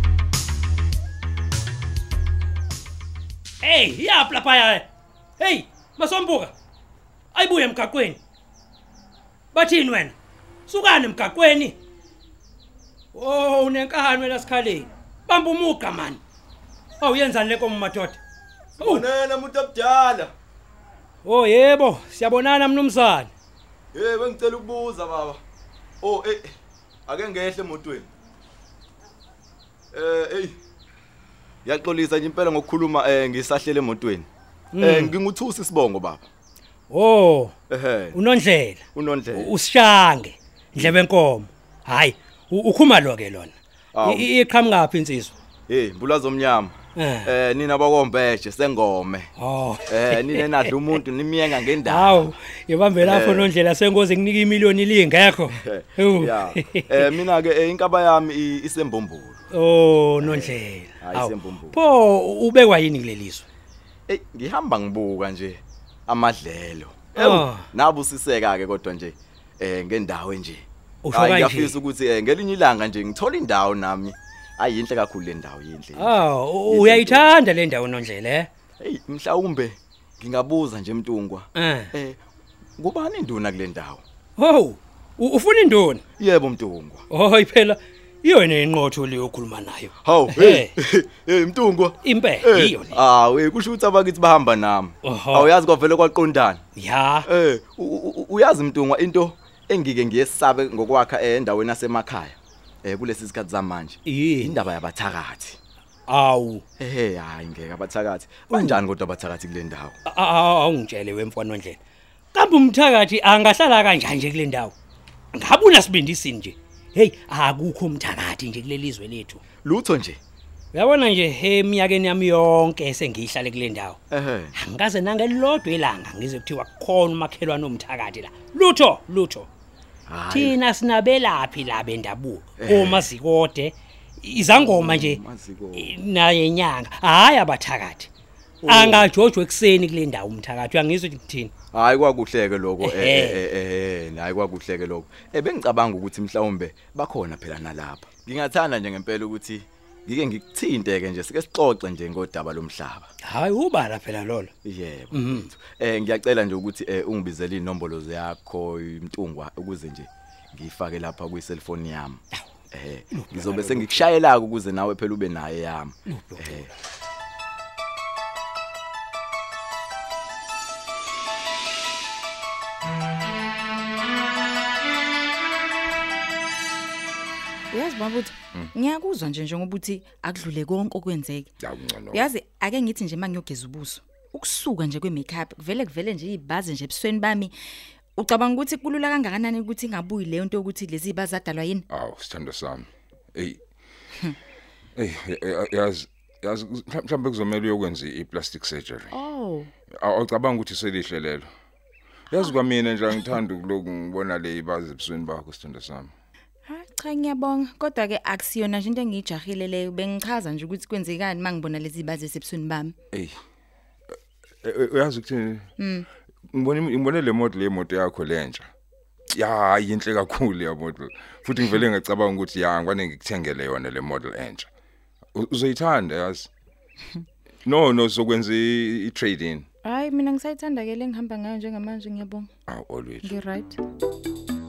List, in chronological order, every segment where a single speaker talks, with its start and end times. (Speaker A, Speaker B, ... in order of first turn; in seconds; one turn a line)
Speaker A: 3.6-4.9
Speaker A: 5.4-6.5
Speaker A: 7.3-8.2
Speaker A: 9.5-10.2
Speaker A: 10.7-11.8
Speaker A: 13.1-16.2
Speaker A: 17.0-18.2
Speaker A: 18.8-19.1
Speaker B: 18.8-20.3
Speaker A: 21.2-23.3
Speaker B: 23.9-25.4
Speaker B: 26.0-26.6
Speaker B: 27.1-28.1
Speaker B: 29.9-30.6
Speaker B: 31.6-34.3
Speaker A: 34.7-35.2
Speaker B: 34.8-36.3
Speaker A: 36.9-37.5
Speaker B: 37.7-38.2
Speaker A: 38.1-45.4
Speaker B: 39.0-39.5
Speaker B: 43.9-44.3
Speaker B: 45.7-49.3
Speaker A: 47.0-47.3
Speaker A: 49.4-57.2
Speaker B: 49.9-52.3
Speaker B: 53.0-53.5
Speaker B: 55.5-59.4
Speaker A: 59.5-63.5
Speaker B: 60.2-61.8
Speaker B: 64.1-77.3
Speaker A: 67.1-67.7
Speaker A: 71.0-71.9
Speaker A: 76.0-78.5
Speaker B: 78.8-82.2
Speaker A: 81.5-81.9
Speaker B: 82.8-84.0
Speaker A: 84.4-86.0
Speaker B: 86.2-87.0
Speaker A: 87.1-90.7
Speaker B: 90.0-96.6
Speaker A: 92.0-93.0
Speaker A: 95.0-95.6
Speaker A: 96.8-97.3
Speaker B: 97.3-105.6
Speaker A: 104.0-104.7
Speaker A: 106.1-106.6
Speaker B: 106.8-110.0
Speaker A: 108.4-108.8
Speaker A: 110.0-111.8
Speaker A: 112.3-114.7
Speaker A: 115.3-119.4
Speaker B: 119.6-120.2
Speaker A: 120.7-124.0
Speaker B: 124.1-124.5
Speaker A: 124.5-129.5
Speaker B: 130.1-130.6
Speaker A: 130.2-135.2
Speaker B: 132.6-133.1
Speaker B: 134.5-135.9
Speaker A: 135.7-138.1
Speaker B: 138.6-139.1
Speaker A: 138.6-141.5
Speaker B: 141.7-153.1
Speaker A: 142.8-143.4
Speaker A: 153.2-154.5
Speaker B: 154.6-162.2
Speaker A: 155.1-155.5
Speaker B: 162.7-166.7
Speaker A: 163.1-164.1
Speaker A: 166.1-166.7
Speaker C: 177.7-181.5
Speaker D: 181.6-182.3
Speaker C: 182.1-187.5
Speaker C: 188.2-191.8
Speaker D: 191.9-193.6
Speaker D: 195.0-199.2
Speaker C: 199.1-199.7
Speaker D: 200.0-201.5
Speaker D: 202.3-206.1
Speaker C: 206.7-213.0
Speaker D: 214.6-215.7
Speaker C: 215.8-216.1
Speaker D: 216.5-218.7
Speaker D: 219.3-224.7
Speaker D: 225.3-226.5
Speaker D: 227.7-229.7
Speaker C: 229.8-232.5
Speaker D: 232.7-233.4
Speaker C: 233.2-233.8